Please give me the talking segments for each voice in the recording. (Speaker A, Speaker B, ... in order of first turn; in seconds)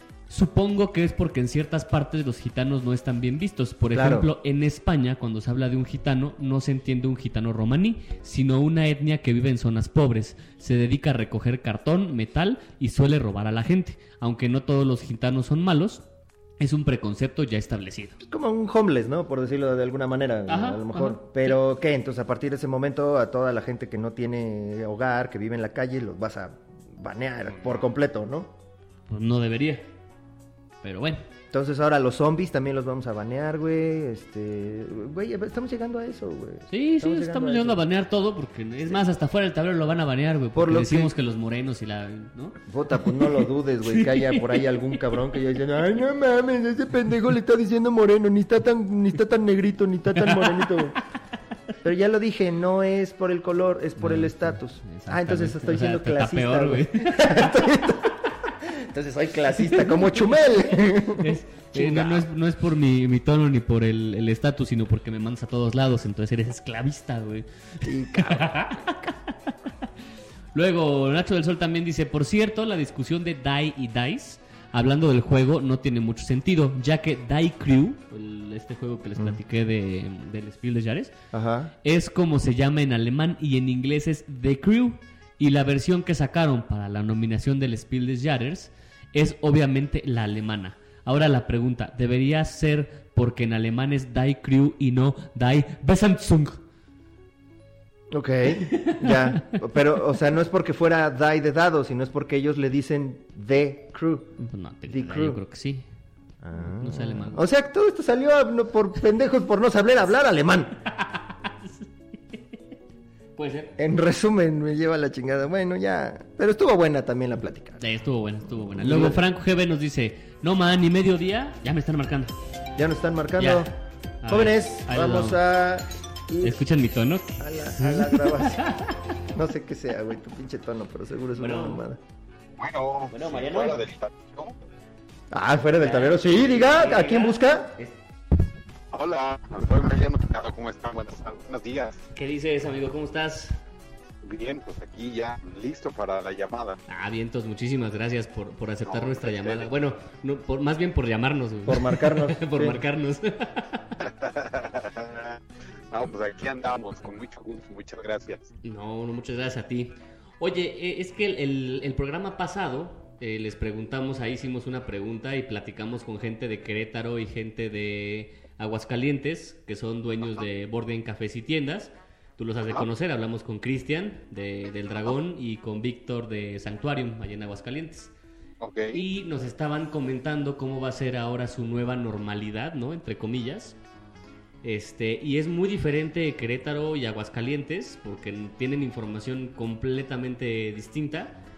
Speaker A: 0.3-16.0, 16.6-18.2, 20.5-21.6, 29.1-29.9, 30.8-31.2, 36.7-42.6, 43.1-44.4, 50.1-50.6, 54.0-57.6, 61.2-69.1, 70.5-81.1, 81.8-96.6, 98.7-99.4, 104.4-105.8, 106.8-107.4, 110.9-112.6, 113.3-113.7, 117.8-122.3, 123.4-123.7, 124.2-125.4, 126.4-128.9, 131.4-131.8, 133.1-133.8, 135.8-137.9, 142.1-143.6, 146.9-153.9, 158.6-178.1, 178.9-183.8, 184.6-191.4
Speaker B: 3.9-4.3, 18.2-28.5, 31.5-37.8, 40.5-41.1, 42.7-51.0, 51.8-62.2, 67.8-69.1, 81.3-81.7, 98.1-104.3, 104.9-105.4, 106.4-110.7, 113.8-117.8, 118.7-119.2, 122.8-123.7, 124.3-126.6, 127.4-128.7, 129.3-132.0, 135.3-137.7, 151.7-152.8
Speaker C: 132.6-134.5, 138.9-142.0, 144.2-146.8, 148.8-149.7, 154.0-155.4, 155.9-158.5, 178.6-179.0